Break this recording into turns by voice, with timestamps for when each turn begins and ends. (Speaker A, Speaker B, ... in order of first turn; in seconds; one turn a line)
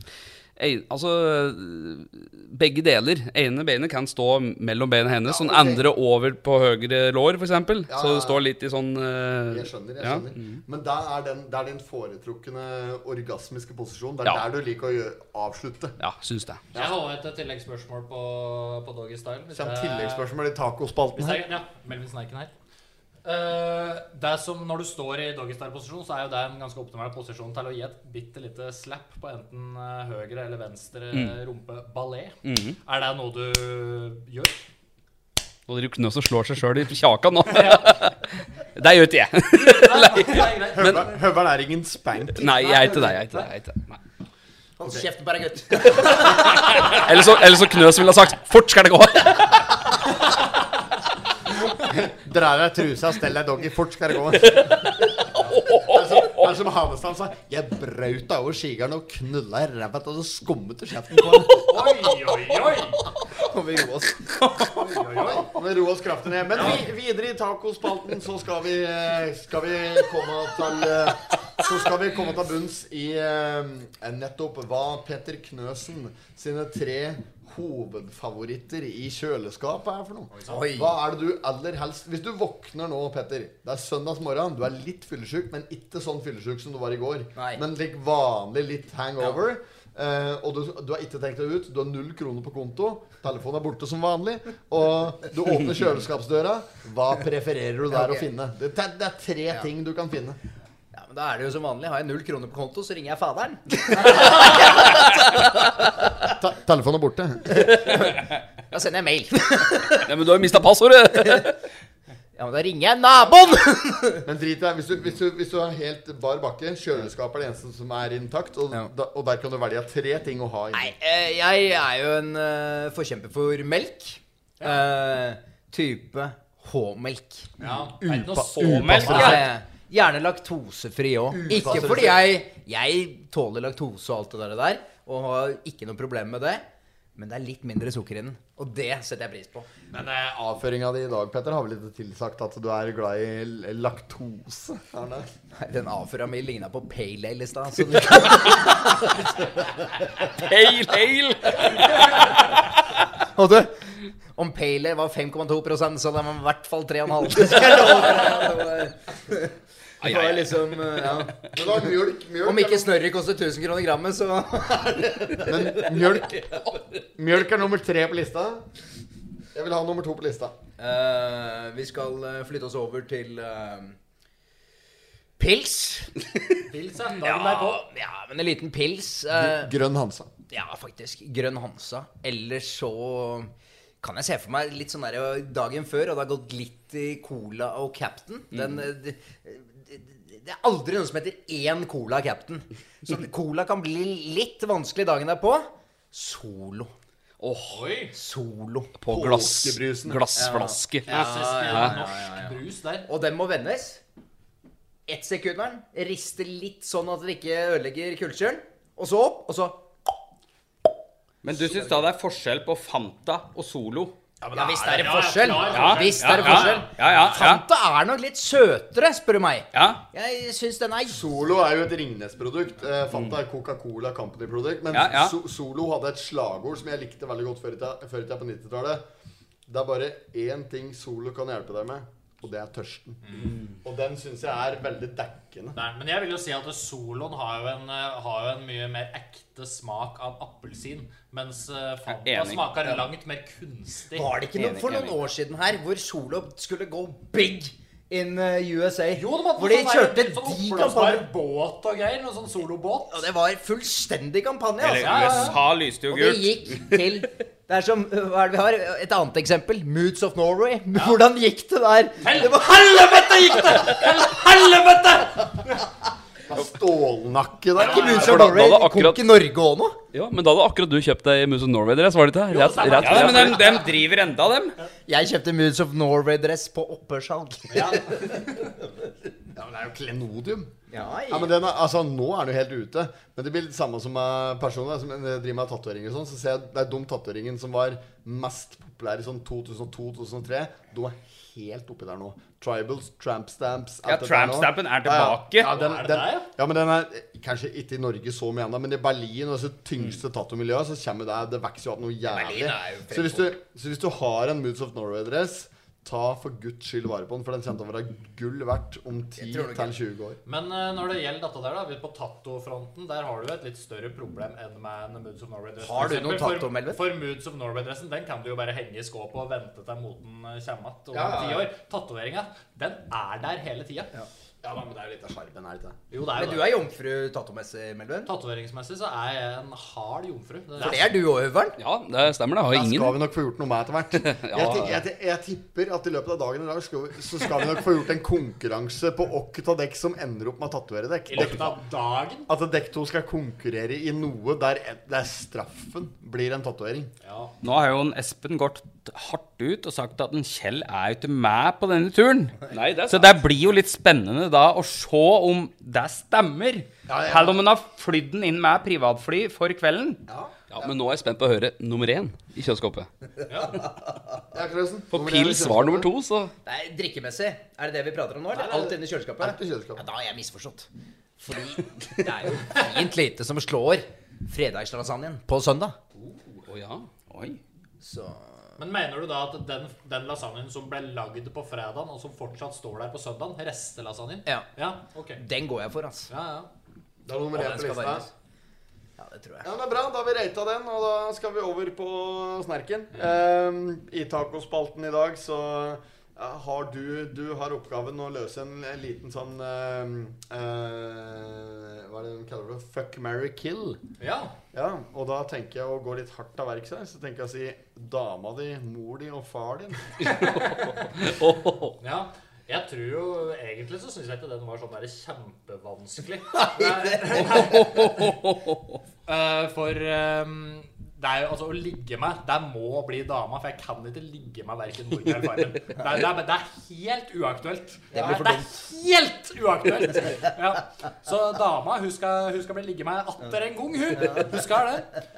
Speaker A: 0.6-10.6
Speaker B: 5.3-5.8
Speaker B: 7.9-8.4
Speaker B: 9.5-16.0
Speaker A: 16.0-16.7
Speaker B: 16.7-17.0
Speaker C: 16.7-20.3
Speaker B: 19.5-21.4
Speaker C: 21.1-22.5
Speaker C: 23.2-34.6
Speaker A: 32.4-32.8
Speaker A: 35.7-41.0
Speaker C: 37.5-37.8
Speaker C: 39.5-41.2
Speaker B: 40.8-43.1
Speaker A: 42.3-44.0
Speaker D: 44.8-46.5
Speaker B: 44.8-45.1
Speaker A: 46.2-50.0
Speaker B: 51.8-62.0
Speaker A: 54.4-56.3
Speaker C: 61.6-63.1
Speaker D: 63.4-65.0
Speaker C: 64.6-65.5
Speaker B: 65.3-100.4
Speaker C: 66.5-66.8
Speaker C: 80.3-80.7
Speaker D: 80.5-81.0
Speaker D: 87.4-87.6
Speaker D: 97.9-98.3
Speaker D: 100.9-105.4
Speaker B: 106.2-107.7
Speaker D: 107.5-110.1
Speaker A: 109.8-111.6
Speaker D: 111.2-111.5
Speaker D: 112.4-114.2
Speaker B: 114.2-120.9
Speaker D: 120.7-127.5
Speaker C: 124.6-124.8
Speaker C: 127.6-129.4
Speaker B: 127.6-129.4
Speaker E: 128.6-129.4
Speaker D: 129.1-136.6
Speaker B: 131.3-132.3
Speaker D: 137.2-139.7
Speaker B: 139.9-145.3
Speaker D: 145.6-149.2
Speaker A: 150.2-152.8
Speaker D: 153.3-161.3
Speaker B: 157.8-158.1
Speaker A: 160.0-160.7
Speaker B: 160.9-162.9
Speaker D: 162.4-165.8
Speaker B: 165.4-166.4
Speaker B: 167.2-168.6
Speaker B: 169.5-170.6
Speaker D: 170.8-174.0
Speaker D: 175.4-176.2
Speaker C: 176.7-177.8
Speaker D: 177.2-179.7
Speaker B: 179.3-180.3
Speaker D: 180.5-196.9
Speaker A: 188.5-188.8
Speaker A: 197.4-197.8
Speaker C: 197.7-198.1
Speaker D: 198.1-198.9
Speaker A: 199.0-202.0
Speaker B: 199.1-200.2
Speaker D: 200.3-204.0
Speaker C: 201.1-203.1
Speaker D: 205.1-209.8
Speaker E: 211.4-214.2
Speaker D: 211.6-211.9
Speaker C: 214.4-217.3
Speaker D: 214.5-221.2
Speaker E: 215.7-217.6
Speaker E: 219.7-220.0
Speaker B: 221.1-229.0
Speaker E: 224.9-225.3
Speaker B: 229.7-235.8
Speaker C: 233.2-233.6
Speaker C: 235.8-244.3
Speaker E: 242.1-242.8
Speaker D: 244.1-251.3
Speaker E: 244.6-245.2
Speaker C: 249.1-253.2
Speaker D: 253.1-255.6
Speaker E: 254.8-256.6
Speaker C: 255.0-255.6
Speaker D: 256.1-264.1
Speaker C: 262.2-265.9
Speaker B: 266.5-268.5
Speaker C: 267.8-268.6
Speaker D: 267.8-270.0
Speaker A: 268.1-269.4
Speaker A: 270.1-273.7
Speaker C: 272.5-274.0
Speaker E: 273.0-274.8
Speaker D: 275.1-278.4
Speaker C: 277.7-278.7
Speaker B: 279.6-280.8
Speaker D: 280.9-281.5
Speaker B: 281.3-310.4
Speaker E: 294.1-295.7
Speaker C: 295.6-296.5
Speaker D: 302.3-303.5
Speaker D: 309.4-309.9
Speaker C: 310.5-324.1
Speaker D: 315.8-317.0
Speaker B: 321.1-321.7
Speaker B: 324.6-326.0
Speaker C: 326.1-326.8
Speaker D: 326.4-328.3
Speaker C: 328.3-331.1
Speaker D: 330.8-331.8
Speaker A: 331.8-333.2
Speaker B: 332.7-341.8
Speaker A: 334.2-335.0
Speaker C: 341.3-342.5
Speaker B: 342.5-347.1
Speaker C: 347.2-347.5
Speaker E: 347.6-360.2
Speaker A: 352.7-353.4
Speaker B: 357.1-357.6
Speaker B: 360.3-360.5
Speaker A: 360.7-363.1
Speaker C: 363.5-363.8
Speaker B: 364.5-366.1
Speaker A: 365.1-366.5
Speaker D: 366.6-370.9
Speaker B: 368.5-370.0
Speaker D: 371.4-376.0
Speaker C: 376.2-376.6
Speaker A: 376.7-377.1
Speaker E: 377.3-377.6
Speaker D: 378.0-378.8
Speaker C: 378.8-385.4
Speaker D: 385.4-386.3
Speaker C: 386.3-386.7
Speaker B: 387.2-388.3
Speaker D: 387.5-388.3
Speaker D: 389.2-389.7
Speaker B: 389.6-404.0
Speaker C: 404.2-404.6
Speaker B: 404.7-410.2
Speaker A: 410.2-412.0
Speaker C: 412.0-418.4
Speaker A: 417.5-418.8
Speaker C: 419.3-435.2
Speaker D: 428.1-428.7
Speaker D: 434.2-434.5